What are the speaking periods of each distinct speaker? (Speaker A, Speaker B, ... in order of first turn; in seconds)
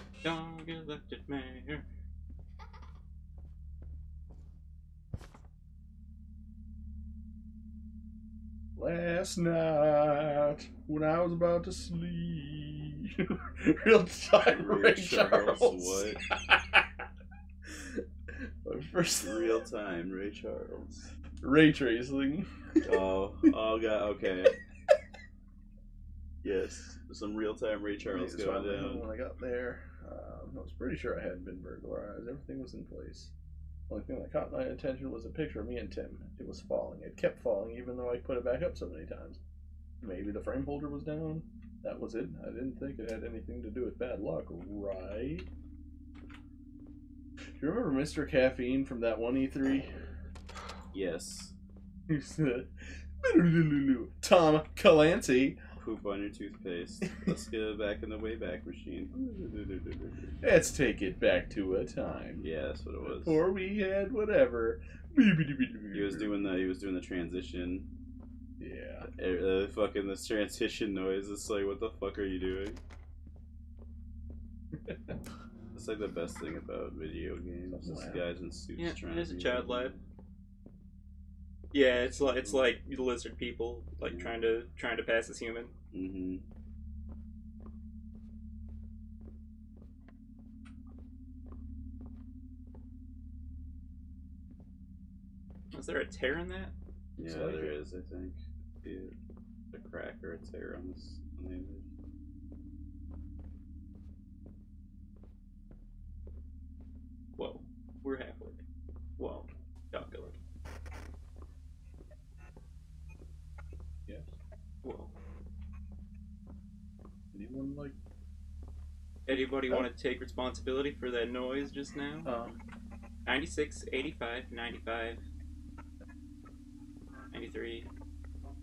Speaker A: 0.2-1.9, 78.8-80.0, 81.7-85.7, 95.7-96.7, 107.4-108.6, 109.2-110.4, 114.8-115.1, 119.3-122.3, 123.3-125.2, 127.3-127.9
Speaker B: 8.8-17.0, 17.6-19.6, 21.4-23.5, 28.1-33.3, 33.9-39.4, 40.0-45.5, 47.6-50.0, 52.1-55.6, 60.4-62.5, 63.0-66.4, 68.6-69.1, 74.8-75.2, 77.7-78.2, 97.2-97.8, 117.3-118.0, 122.2-122.6
Speaker C: 14.4-16.2, 19.2-21.1, 22.8-24.6, 26.4-29.1, 50.9-51.5, 55.8-60.4, 62.4-63.4, 65.9-67.9, 69.0-72.8, 75.7-80.0, 81.9-82.7, 84.0-84.3, 85.9-86.4, 97.2-99.1, 99.7-101.9